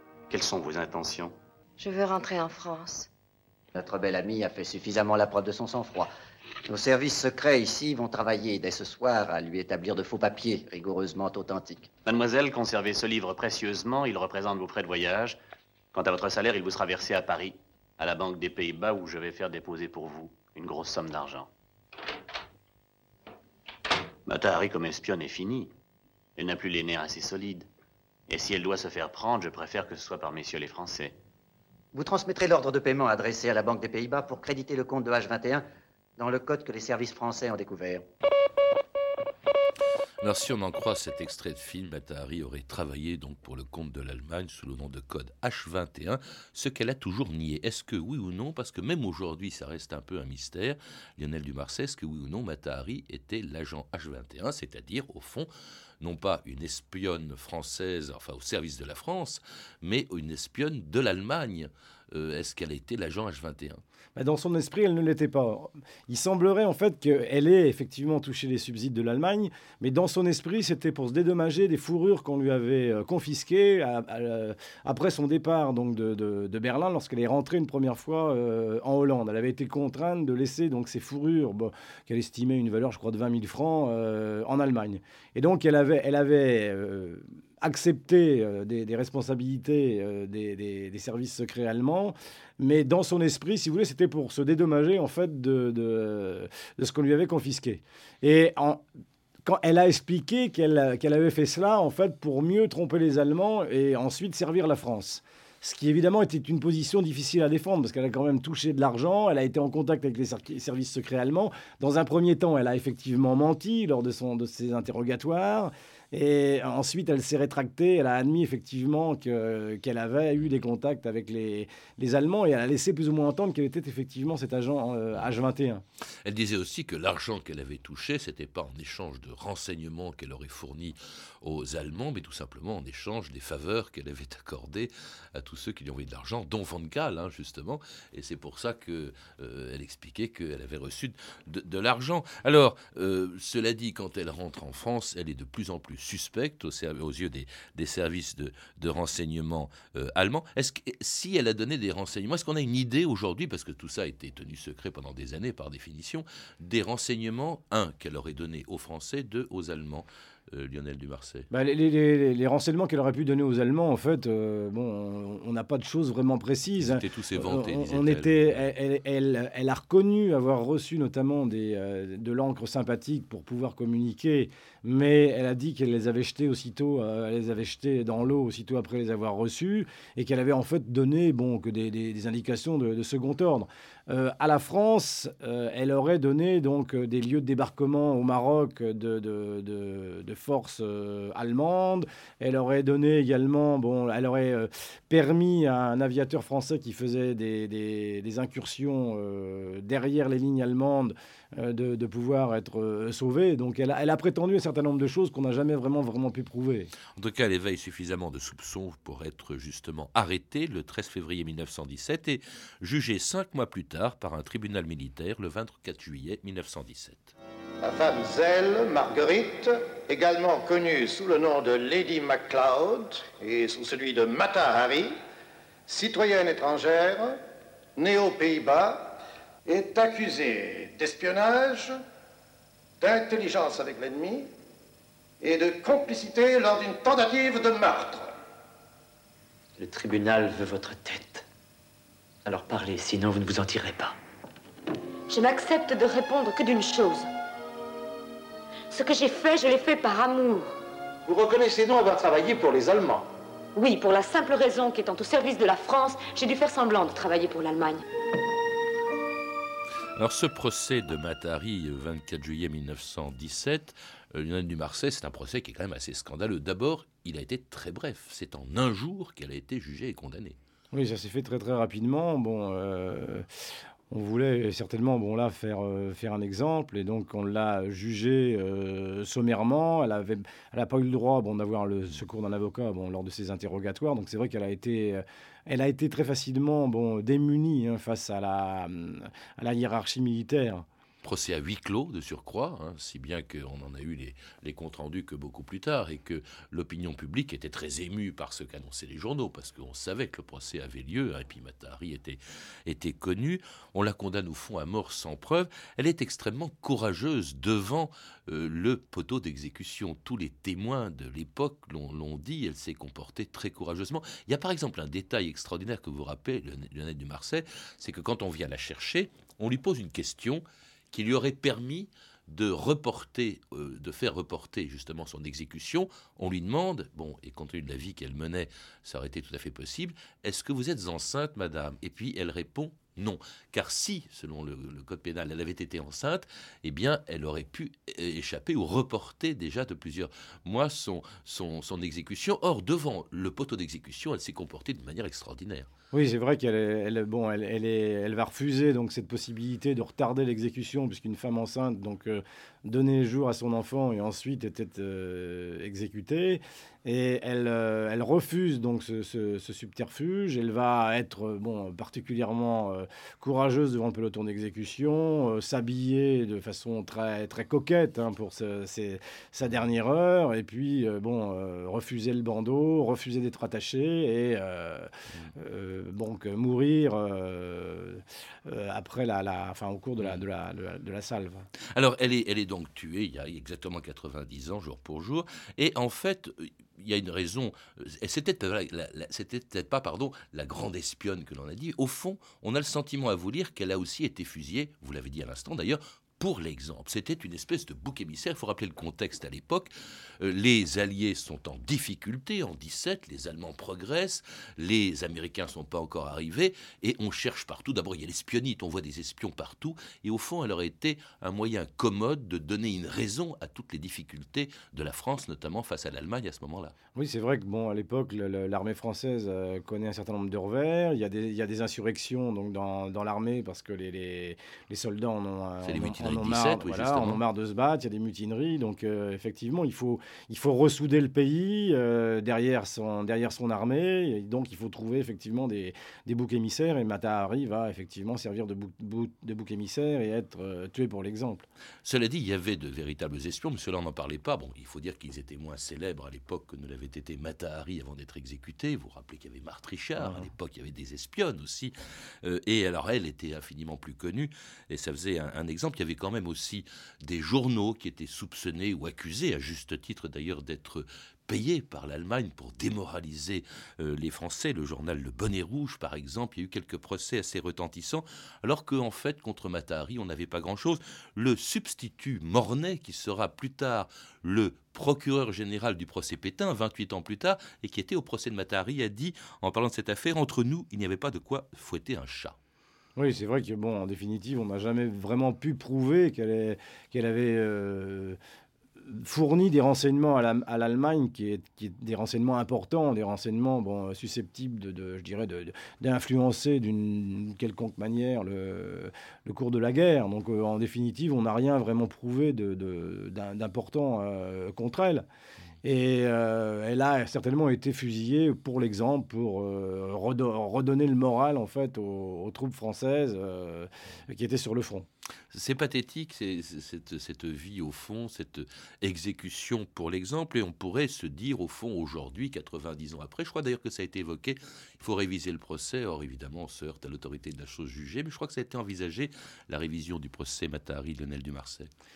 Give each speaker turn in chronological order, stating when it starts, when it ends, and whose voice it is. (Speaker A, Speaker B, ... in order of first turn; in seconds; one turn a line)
Speaker A: 0.3-1.3
Speaker B: 3.7-6.1
Speaker B: 6.7-11.9
Speaker A: 12.0-15.4
Speaker A: 15.9-21.5
Speaker A: 24.3-25.7
Speaker A: 26.4-27.7
Speaker A: 28.3-31.1
Speaker B: 31.9-35.6
Speaker B: 36.2-38.0
Speaker C: 40.2-55.5
Speaker C: 56.0-63.8
Speaker D: 64.2-98.8
Speaker D: 99.5-125.8
Speaker C: 126.2-161.5
Speaker D: 161.5-206.9
Speaker C: 166.8-168.7
Speaker C: 207.1-217.3
Speaker E: 217.8-225.1
Speaker E: 225.9-227.4
Speaker E: 228.0-231.9
Speaker E: 233.0-234.5
Speaker E: 235.4-238.3
Speaker F: 239.8-241.4
Speaker F: 242.4-244.2
Speaker G: 245.3-247.3
Speaker G: 248.9-250.7
Speaker H: 251.2-253.3
Speaker G: 253.7-258.0
Speaker C: 260.2-270.6
Speaker D: 270.9-273.4
Speaker D: 274.1-290.8
Speaker C: 291.2-345.9
Speaker D: 346.1-381.7
Speaker C: 381.9-416.9
Speaker D: 417.1-441.7
Speaker C: 425.8-427.4
Speaker C: 442.0-482.6
Speaker D: 450.2-450.5
Speaker D: 483.2-488.4
Speaker D: 489.0-505.2
Speaker D: 505.8-515.1
Speaker C: 515.5-531.9